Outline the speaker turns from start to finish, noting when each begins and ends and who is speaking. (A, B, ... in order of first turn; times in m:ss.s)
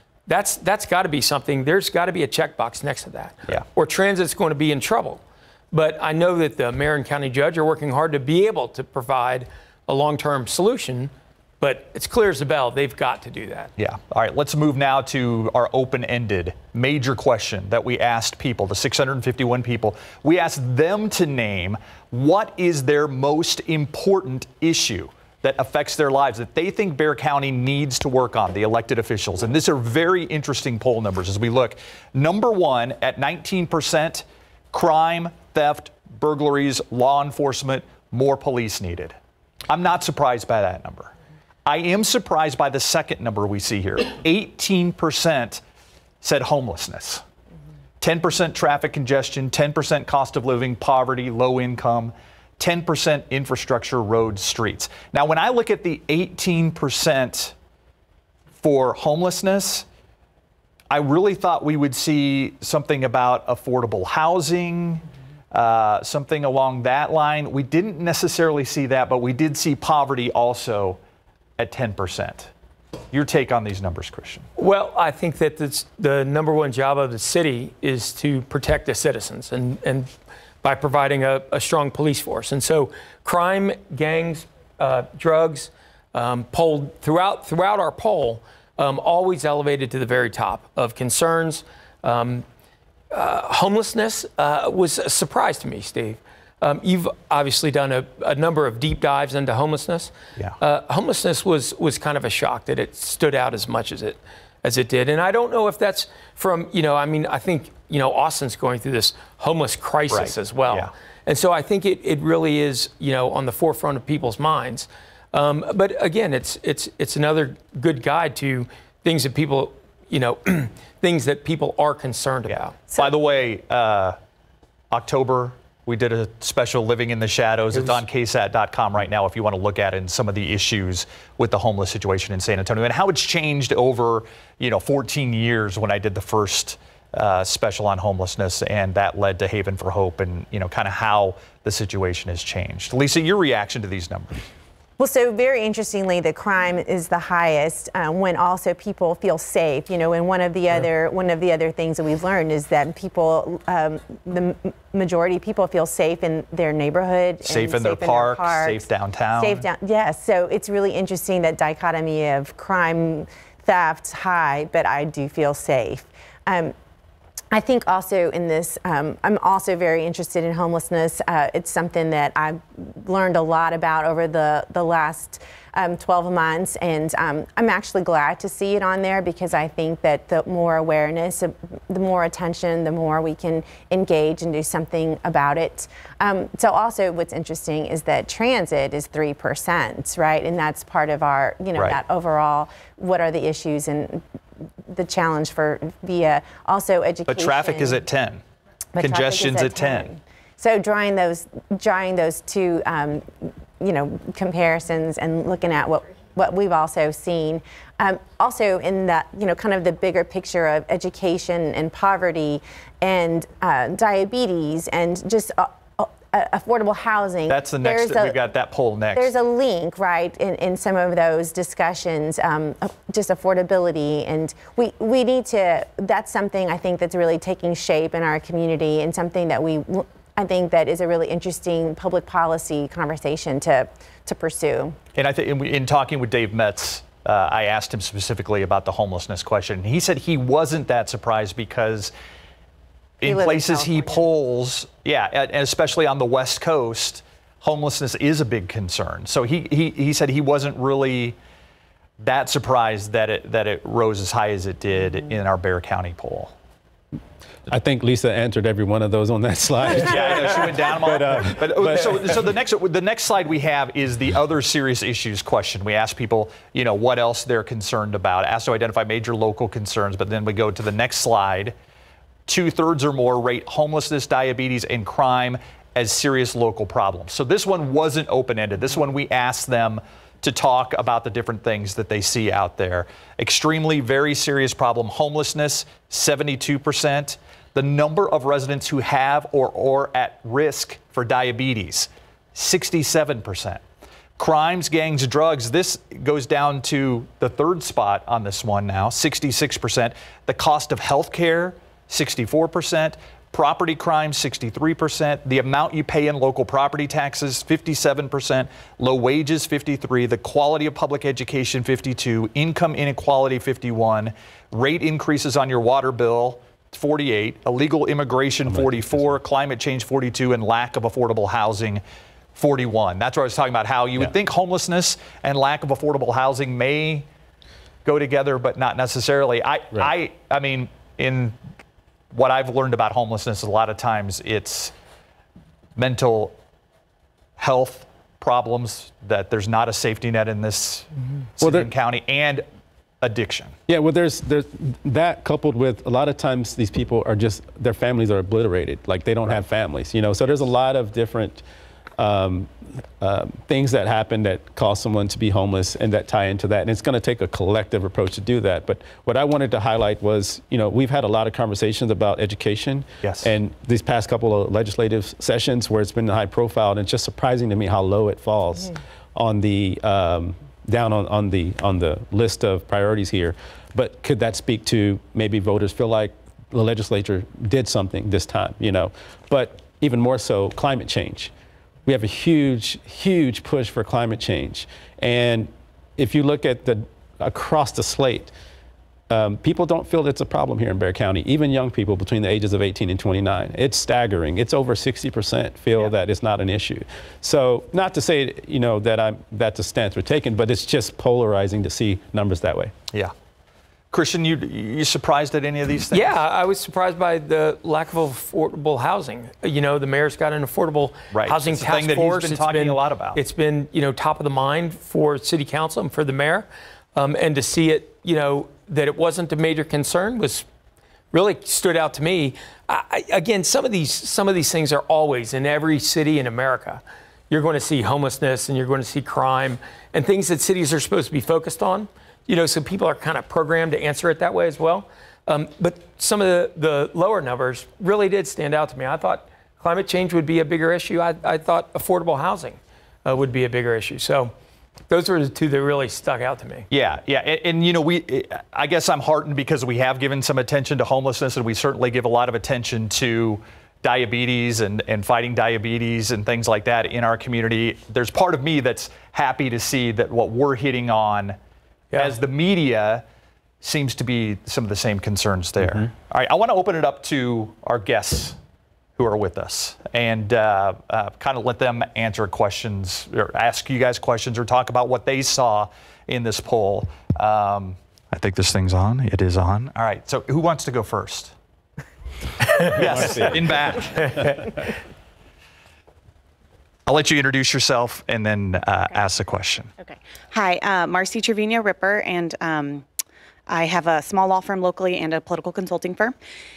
0:00.3-0:05.2 A
0:05.7-0:13.7 A
0:13.8-0:39.1 B
0:39.7-0:41.1 B
0:41.6-0:45.6 B
0:46.2-0:47.2 B
0:48.0-0:57.5 B
0:58.6-0:59.8 B
1:00.9-1:11.0 B
1:11.6-1:12.5 B
1:13.1-1:14.4 B
1:14.6-1:32.4 A
1:33.1-2:02.7 A
1:50.1-1:50.9 B
2:02.5-2:04.2 B
2:04.9-2:24.4 B
2:07.7-2:08.0 A
2:25.0-2:38.8 C
2:37.4-2:39.6 B
2:39.4-2:46.7 C
2:47.5-3:14.2 C
3:14.9-3:18.0 C
3:17.3-3:18.4 B
3:18.9-3:38.4 C
3:19.0-3:20.1 B
3:37.5-3:39.3 B
3:39.1-3:55.0 C
3:55.1-4:02.1 B
4:03.2-4:11.4 B
4:03.2-4:04.2 C
4:12.2-4:16.5 B
4:17.7-4:22.4 D
4:19.9-4:31.7 B
4:32.5-4:53.8 B
4:54.4-5:22.0 B
5:18.7-5:19.4 D
5:22.5-5:27.2 B
5:28.0-5:31.6 B
5:32.3-5:34.9 B
5:36.0-5:36.5 B
5:37.6-5:42.6 B
5:41.6-5:41.9 D
5:43.2-5:43.7 B
5:43.9-5:51.6 D
5:52.2-6:21.5 D
6:03.2-6:03.5 B
6:22.0-6:28.5 D
6:29.3-6:42.9 D
6:44.1-6:46.3 B
6:46.1-7:00.6 A
6:51.3-6:53.4 B
7:01.3-7:24.5 A
7:25.1-7:26.9 A
7:26.9-7:41.6 B
7:42.1-7:43.2 B
7:43.8-7:48.6 B
7:49.2-8:01.5 B
8:02.8-8:04.7 B
8:02.9-8:03.7 D
8:07.0-8:09.9 B
8:10.0-8:13.0 E
8:13.7-8:16.3 E